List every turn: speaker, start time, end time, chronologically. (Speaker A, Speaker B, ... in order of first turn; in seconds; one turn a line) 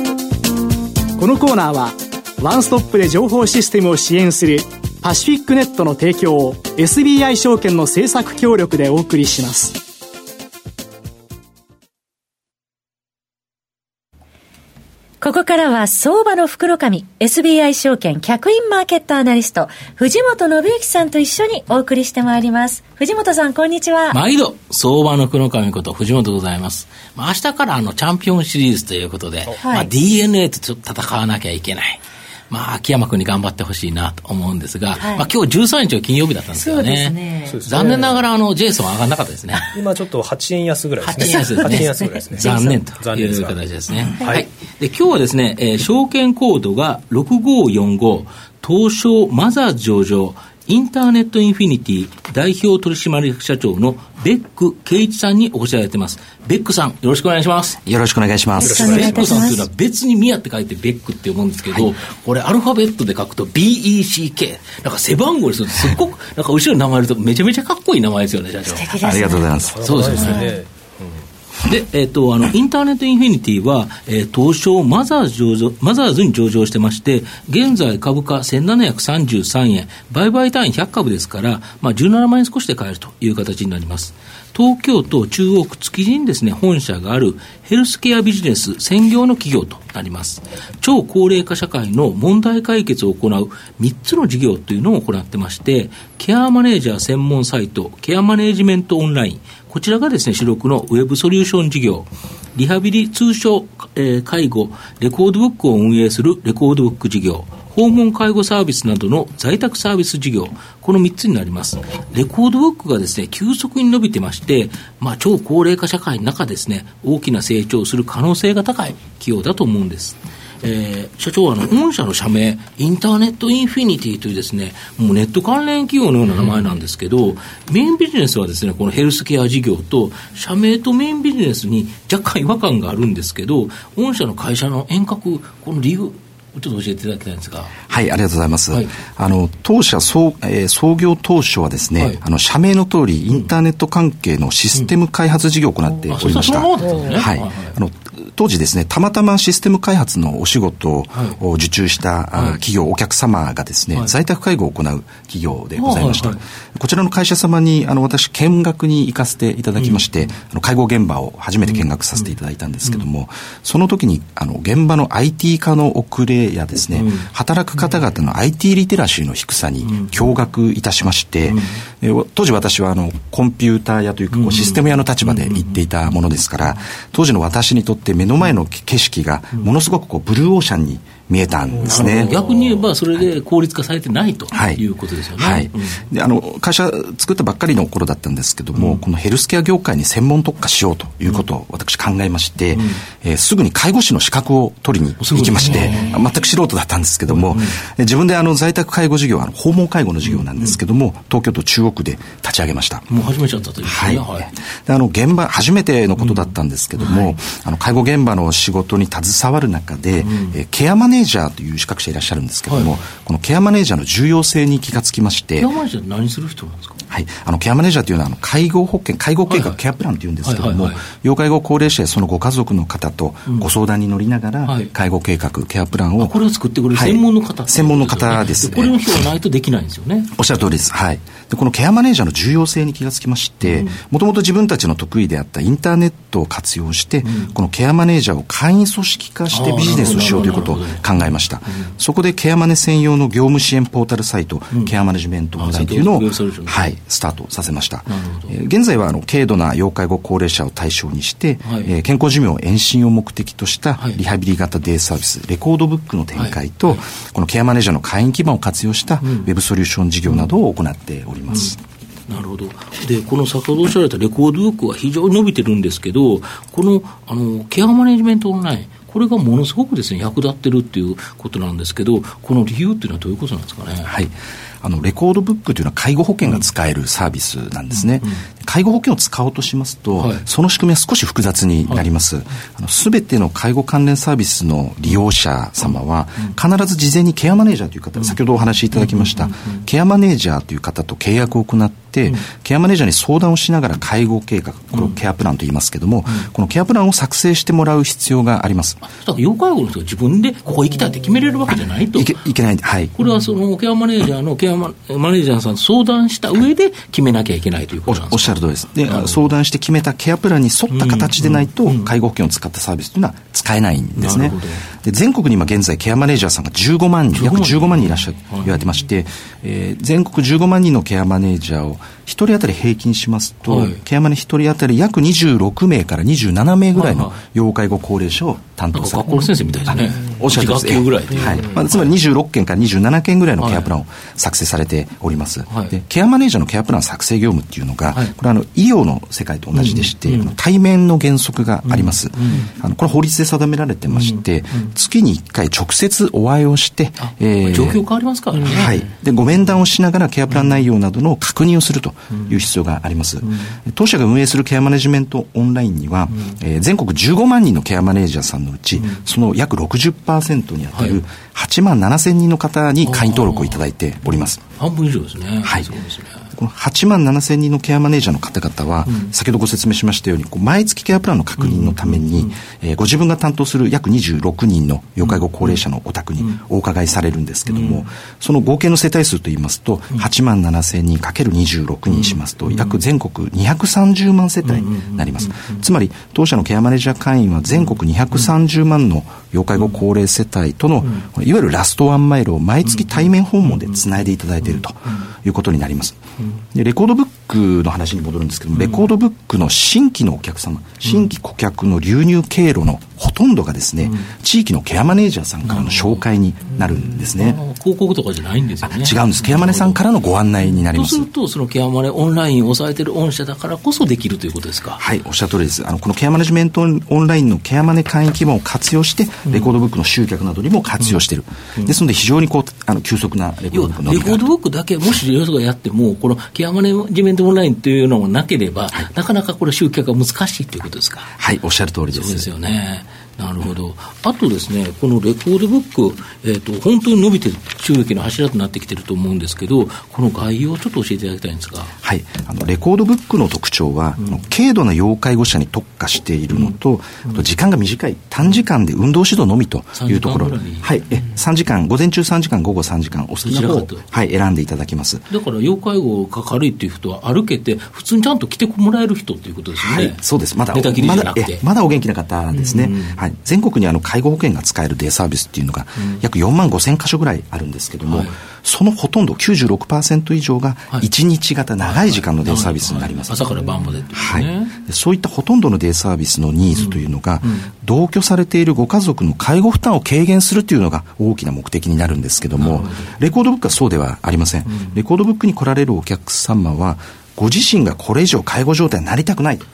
Speaker A: 1.2-9.8
Speaker B: 15.2-24.2
Speaker C: 24.1-39.8
Speaker B: 29.6-29.9
Speaker B: 35.0-35.2
Speaker B: 36.5-37.5
Speaker D: 37.5-38.2
Speaker D: 39.7-43.6
Speaker C: 41.0-57.8
Speaker E: 57.8-59.5
Speaker C: 58.6-69.2
Speaker B: 58.7-59.6
Speaker D: 58.8-59.4
Speaker B: 68.6-69.6
Speaker E: 69.0-69.9
Speaker D: 69.6-71.2
Speaker C: 69.8-70.5
Speaker C: 71.6-137.8
Speaker E: 137.9-182.4
Speaker C: 146.1-147.8
Speaker C: 151.1-151.4
Speaker C: 152.3-152.6
Speaker C: 155.8-156.4
Speaker C: 159.8-160.3
Speaker C: 161.7-162.3
Speaker C: 166.9-167.8
Speaker C: 169.8-170.3
Speaker C: 171.5-171.7
Speaker C: 174.3-175.8
Speaker C: 181.8-186.1
Speaker E: 184.5-184.8
Speaker E: 185.3-203.1
Speaker C: 188.7-189.0
Speaker C: 195.2-196.2
Speaker C: 197.3-197.8
Speaker C: 200.2-200.8
Speaker C: 203.1-204.5
Speaker E: 203.8-215.7
Speaker C: 206.2-207.3
Speaker C: 210.2-210.6
Speaker C: 212.7-213.1
Speaker C: 215.6-217.0
Speaker E: 217.1-226.4
Speaker C: 219.5-219.8
Speaker C: 220.4-221.0
Speaker C: 224.6-224.9
Speaker C: 226.2-230.3
Speaker E: 226.9-229.0
Speaker E: 230.3-261.8
Speaker C: 233.6-233.9
Speaker C: 237.2-237.5
Speaker C: 239.5-241.9
Speaker C: 245.6-246.9
Speaker C: 248.1-248.5
Speaker C: 251.6-251.9
Speaker C: 256.3-257.0
Speaker C: 259.2-259.5
Speaker C: 260.3-260.5
Speaker C: 261.5-261.7
Speaker C: 262.3-274.1
Speaker E: 274.0-299.0
Speaker C: 278.0-278.4
Speaker C: 280.2-280.4
Speaker C: 285.8-286.6
Speaker C: 288.9-289.9
Speaker C: 299.0-302.4
Speaker E: 301.7-303.1
Speaker C: 303.1-309.5
Speaker E: 308.1-348.0
Speaker C: 310.9-312.1
Speaker C: 314.1-314.9
Speaker C: 317.3-318.8
Speaker C: 323.6-324.0
Speaker C: 326.9-327.4
Speaker C: 328.9-332.1
Speaker C: 333.6-333.9
Speaker C: 335.7-335.9
Speaker C: 339.7-340.5
Speaker C: 341.8-342.7
Speaker C: 344.1-344.9
Speaker C: 347.2-349.1
Speaker E: 348.6-364.6
Speaker C: 350.5-350.9
Speaker C: 352.3-352.6
Speaker C: 353.4-353.7
Speaker C: 359.0-359.2
Speaker C: 360.9-361.2
Speaker C: 363.0-366.5
Speaker E: 365.6-365.9
Speaker E: 366.5-407.6
Speaker C: 369.1-369.3
Speaker C: 371.6-372.6
Speaker C: 375.2-375.8
Speaker C: 377.7-378.1
Speaker C: 382.1-383.0
Speaker C: 384.6-385.9
Speaker C: 387.7-388.5
Speaker C: 392.8-395.3
Speaker C: 398.7-399.1
Speaker C: 401.0-401.3
Speaker C: 404.0-404.3
Speaker C: 405.6-406.2
Speaker C: 407.3-410.0
Speaker E: 408.8-411.3
Speaker C: 410.7-415.0
Speaker E: 415.0-424.4
Speaker C: 419.4-419.7
Speaker C: 423.7-431.3
Speaker E: 431.4-432.5
Speaker C: 432.1-441.9
Speaker E: 442.0-455.2
Speaker C: 446.5-447.4
Speaker C: 449.9-451.0
Speaker C: 453.4-454.0
Speaker C: 455.3-461.6
Speaker E: 459.8-489.6
Speaker C: 462.7-463.2
Speaker C: 466.0-466.2
Speaker C: 468.1-468.4
Speaker C: 471.8-474.8
Speaker C: 476.7-477.7
Speaker C: 482.6-483.2
Speaker C: 484.6-485.0